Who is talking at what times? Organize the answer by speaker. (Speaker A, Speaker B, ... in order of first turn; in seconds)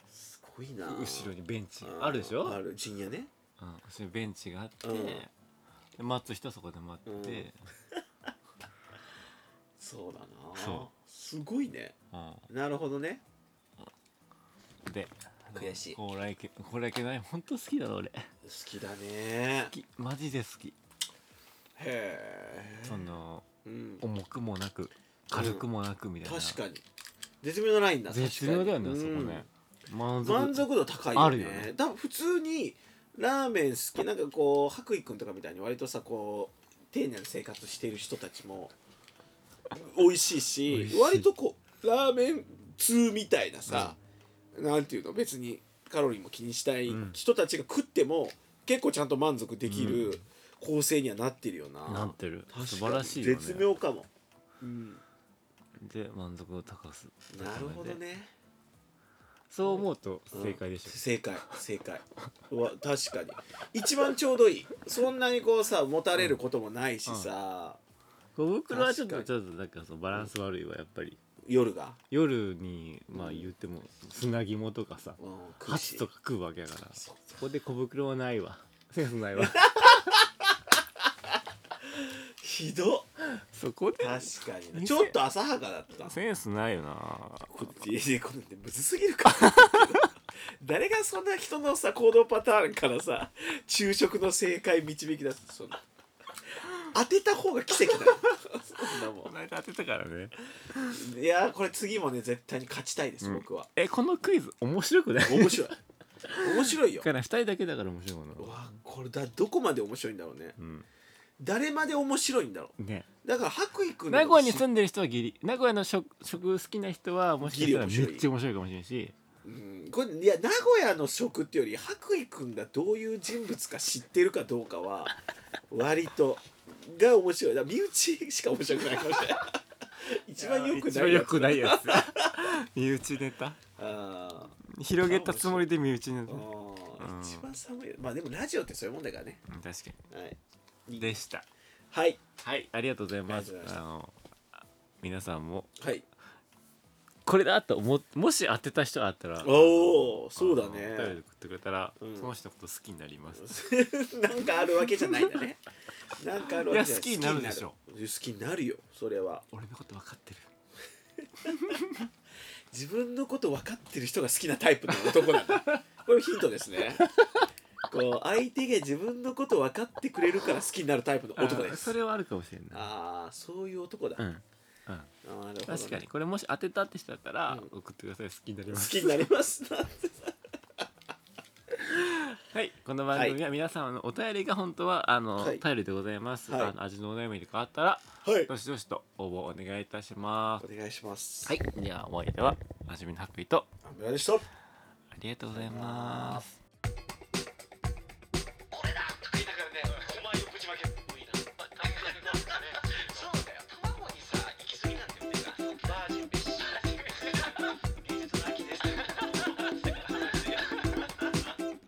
Speaker A: 0.1-3.3, 4.8-5.2, 7.1-7.5, 9.8-11.9, 12.5-13.2, 15.5-16.0, 18.4-19.7, 21.8-23.1, 23.6-24.0, 25.3-25.6, 26.2-26.8, 27.4-29.5, 30.2-38.7, 39.7-44.0, 44.5-54.1, 54.6-55.0, 57.3-58.3, 59.7-67.8, 68.7-69.3, 71.5-72.0, 73.1-73.5, 75.2-76.1, 77.0-77.4, 79.4-80.8, 81.9-83.1, 84.0-86.2, 87.5-95.8, 96.9-99.3, 100.9-103.7, 105.2-105.8, 106.4-107.1, 108.4-110.6, 111.4-114.6, 117.4-118.3, 119.4-125.2, 125.7-132.3, 133.8-135.7, 136.3-139.4, 140.1-141.2, 141.9-142.2, 143.3-143.8, 145.8-146.1, 149.4-151.2, 152.0-152.3, 153.4-155.6, 156.2-159.4, 162.7-167.0, 167.9-171.9, 172.7-174.2, 175.2-176.0, 178.7-180.8, 183.1-183.4, 185.4-185.7, 186.5-186.7, 188.2-188.5, 190.6-191.6, 193.8-194.5, 195.5-196.4, 198.7-211.1
Speaker B: 0.8-2.6, 3.6-5.3, 6.0-7.6, 10.6-10.9, 12.1-12.5, 14.8-18.3, 19.7-20.8, 22.9-23.5, 24.0-26.6, 28.1-31.7, 40.7-41.3, 43.7-44.0, 46.9-47.2, 49.7-50.2, 51.9-53.7, 55.8-58.0, 59.5-61.5, 68.4-71.2, 72.1-80.0, 83.2-85.2, 86.0-87.7, 89.3-90.1, 98.0-98.3, 99.2-101.0, 103.2-105.7, 106.3-108.7, 110.6-110.9, 112.8-113.1, 114.1-119.2, 130.4-133.6, 134.7-136.5, 137.0-137.5, 139.5-140.0, 141.0-141.5, 142.4-144.2, 145.0-145.7, 147.2-153.6, 154.9-155.4, 156.7-157.8, 159.5-160.5, 161.5-162.1, 165.1-165.8, 167.0-167.4, 171.4-172.9, 174.2-175.1, 175.7-179.2, 182.0-190.7, 191.5-193.7, 195.1-196.6